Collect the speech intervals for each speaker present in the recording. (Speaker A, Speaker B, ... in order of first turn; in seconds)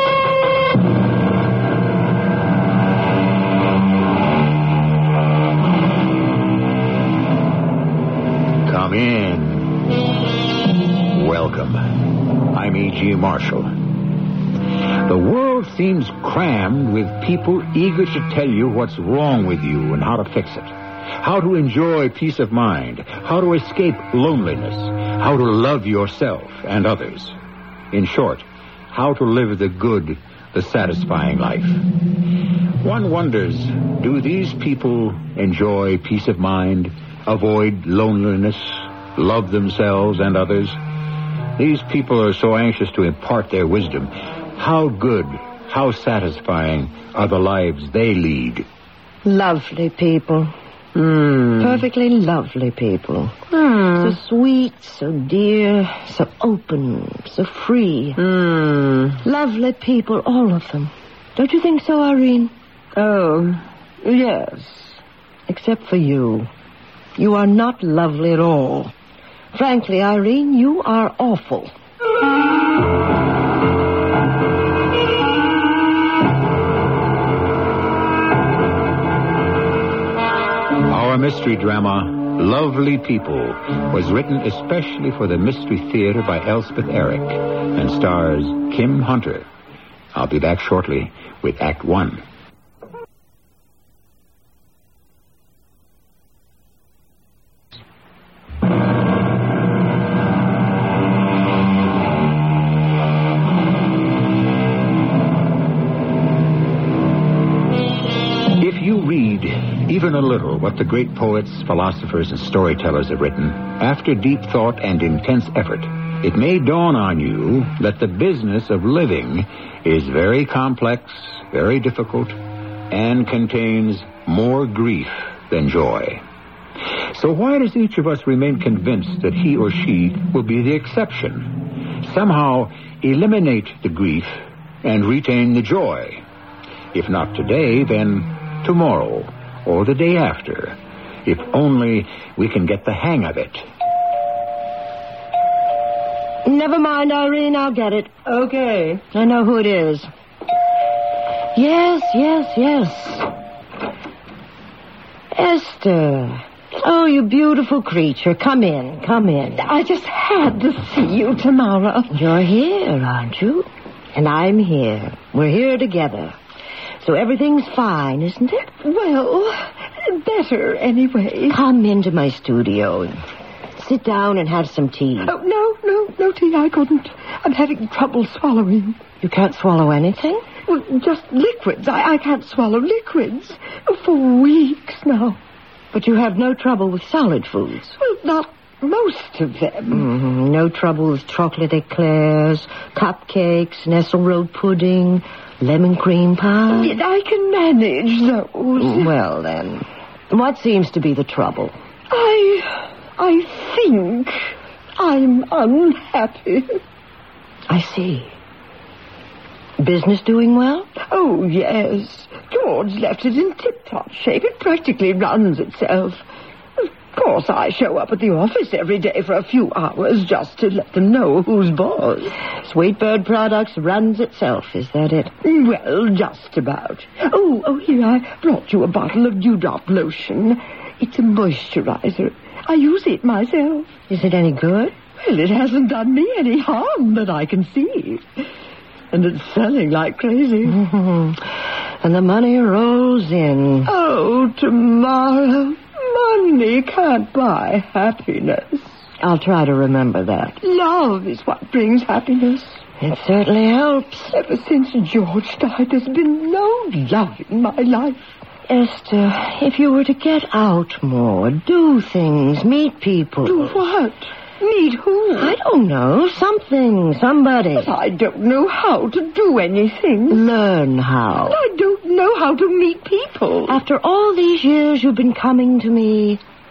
Speaker A: 8.6-10.0, 11.1-13.9, 15.0-27.4, 27.9-31.9, 32.8-40.8, 41.6-48.7, 80.9-89.5, 90.1-92.2, 108.6-122.4, 122.9-126.2, 127.1-136.2, 136.9-143.7
Speaker B: 49.2-50.5, 51.6-58.2, 59.2-62.5, 65.5-66.5, 67.2-68.9, 69.5-71.7, 146.4-148.1, 149.1-150.1, 151.6-153.3, 155.3-159.7, 162.1-166.4, 167.0-168.8, 171.5-173.2, 173.8-175.3, 179.2-180.4, 185.9-188.0, 189.9-197.0, 198.8-201.8, 207.7-208.3, 209.8-210.9, 222.6-225.3, 234.1-235.0, 240.7-243.9, 249.2-250.6, 253.0-254.4, 258.7-263.8, 265.4-267.9, 270.3-271.6, 273.7-276.4
Speaker C: 51.0-51.8, 53.5-54.2, 58.2-59.2, 63.0-65.0, 148.3-149.1, 159.6-162.2, 168.8-171.6, 175.2-179.0, 180.7-185.4, 188.0-190.1, 196.7-199.1, 202.1-206.8, 211.0-216.2, 216.8-222.4, 225.4-233.9, 235.2-238.2, 239.1-240.8, 243.9-249.0, 250.6-252.8, 254.3-258.3, 263.4-265.6, 267.8-270.4, 271.4-273.8